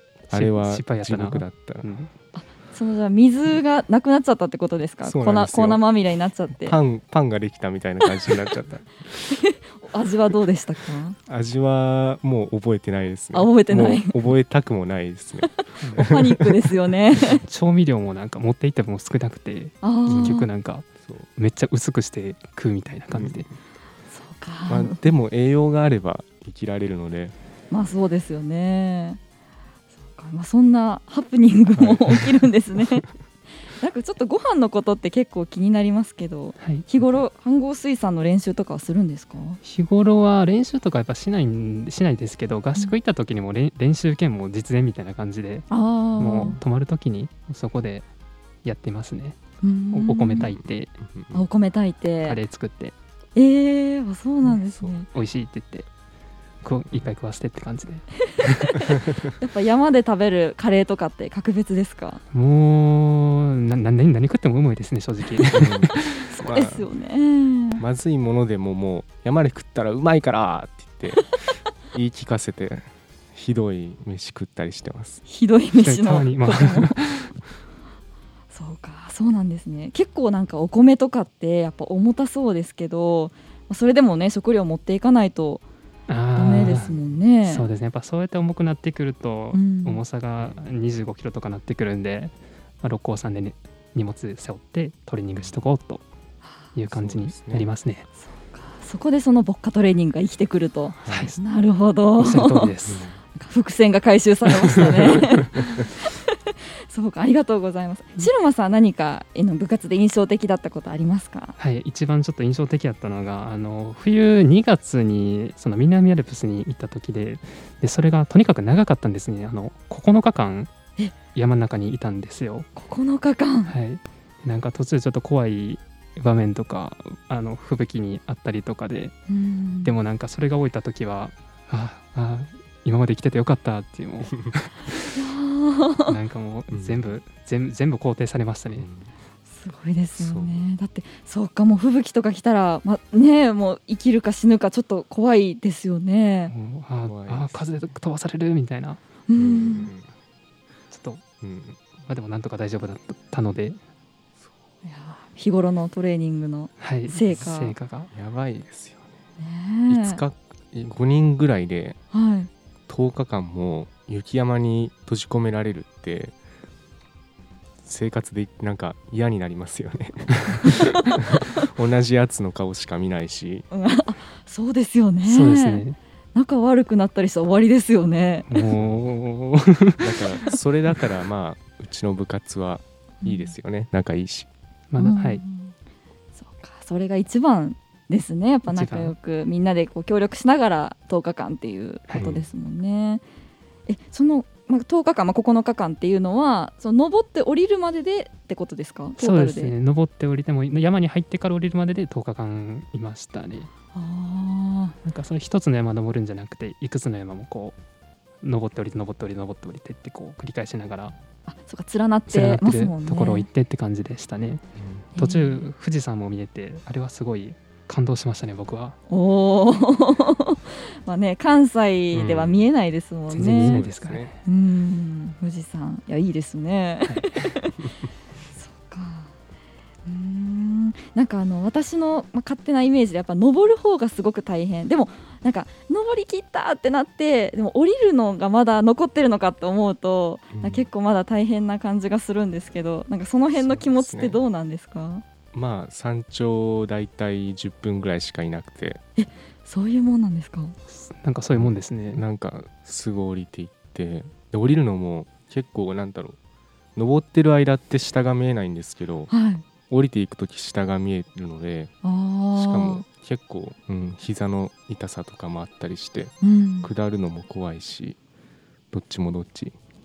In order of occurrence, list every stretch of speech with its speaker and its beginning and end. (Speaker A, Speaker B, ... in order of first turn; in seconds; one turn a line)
Speaker A: 0.3-1.9
Speaker B: 0.3-2.1
Speaker C: 2.4-6.8
Speaker A: 5.0-5.8
Speaker A: 6.6-9.2
Speaker C: 9.3-11.2
Speaker A: 11.3-16.5
Speaker C: 13.3-14.1
Speaker B: 15.8-16.1
Speaker C: 16.0-17.4
Speaker B: 17.4-23.5
Speaker C: 19.8-20.5
Speaker A: 20.1-20.4
Speaker A: 23.1-23.4
Speaker C: 24.1-25.0
Speaker A: 24.7-27.3
Speaker C: 27.7-29.2
Speaker C: 30.1-33.1
Speaker A: 31.8-32.5
Speaker C: 33.8-39.6
Speaker B: 36.6-36.9
Speaker B: 39.6-48.1
Speaker C: 45.7-46.6
Speaker B: 48.6-49.4
Speaker C: 49.6-50.5
Speaker B: 49.9-50.9
Speaker A: 50.5-51.4
Speaker C: 51.3-52.4
Speaker B: 52.2-53.0
Speaker C: 53.4-55.1
Speaker B: 55.1-55.9
Speaker B: 56.6-58.8
Speaker C: 58.3-62.2
Speaker B: 62.3-66.2
Speaker A: 65.5-66.9
Speaker C: 66.3-67.8
Speaker A: 67.8-75.2
Speaker C: 75.3-77.0
Speaker B: 75.8-77.3
Speaker C: 78.5-85.6
Speaker B: 86.1-86.9
Speaker C: 86.3-87.7
Speaker A: 86.6-87.1
Speaker B: 87.4-96.0
Speaker C: 89.5-90.0
Speaker B: 96.8-98.1
Speaker A: 96.9-97.7
Speaker C: 98.2-102.7
Speaker A: 101.0-101.3
Speaker B: 101.1-101.4
Speaker B: 102.2-103.0
Speaker A: 102.9-103.2
Speaker C: 103.4-111.6
Speaker A: 105.3-105.8
Speaker B: 111.6-120.7
Speaker B: 121.3-122.7
Speaker C: 122.8-123.7
Speaker B: 123.7-129.2
Speaker C: 129.3-129.9
Speaker B: 129.8-135.1
Speaker C: 135.1-136.2
Speaker B: 136.1-138.9
Speaker A: 136.7-137.2
Speaker A: 138.7-139.1
Speaker C: 139.5-146.5
Speaker A: 140.2-140.7
Speaker B: 146.5-149.0
Speaker A: 147.1-147.6
Speaker C: 149.3-149.9
Speaker A: 149.3-150.1
Speaker B: 150.9-151.2
Speaker A: 151.4-151.8
Speaker B: 152.1-153.8
Speaker C: 154.8-157.8
Speaker B: 156.8-158.1
Speaker A: 158.1-159.1
Speaker C: 159.4-160.2
Speaker A: 159.9-162.0
Speaker C: 162.1-162.5
Speaker A: 162.9-166.3
Speaker A: 167.8-173.7
Speaker C: 170.6-171.0
Speaker C: 173.7-175.8
Speaker B: 175.2-176.0
Speaker C: 176.3-178.5
Speaker B: 178.5-180.2
Speaker A: 178.8-179.1
Speaker A: 180.0-184.5
Speaker C: 183.2-183.5
Speaker B: 184.9-185.4
Speaker C: 185.0-185.8
Speaker C: 186.4-193.2
Speaker B: 188.7-189.1
Speaker A: 192.2-192.4
Speaker C: 193.9-199.7
Speaker B: 199.2-203.7
Speaker C: 203.9-204.9
Speaker B: 205.0-207.8
Speaker B: 208.4-211.2
Speaker C: 211.5-213.5
Speaker B: 212.3-214.6
Speaker A: 214.8-215.1
Speaker C: 215.2-215.7
Speaker B: 215.2-219.0
Speaker C: 219.1-223.8
Speaker A: 222.1-222.6
Speaker B: 223.3-224.3
Speaker A: 223.4-224.3
Speaker C: 224.4-227.8
Speaker B: 227.1-227.5
Speaker C: 228.6-229.3
Speaker C: 230.1-245.2
Speaker A: 240.5-240.8
Speaker A: 243.6-244.4
Speaker A: 245.5-249.0
Speaker C: 249.2-250.8
Speaker B: 250.9-252.2
Speaker A: 251.6-256.4
Speaker A: 257.0-259.3
Speaker C: 259.3-259.6
Speaker A: 259.9-261.9
Speaker C: 262.0-263.1
Speaker A: 262.5-268.2
Speaker C: 266.4-266.9
Speaker A: 268.9-269.8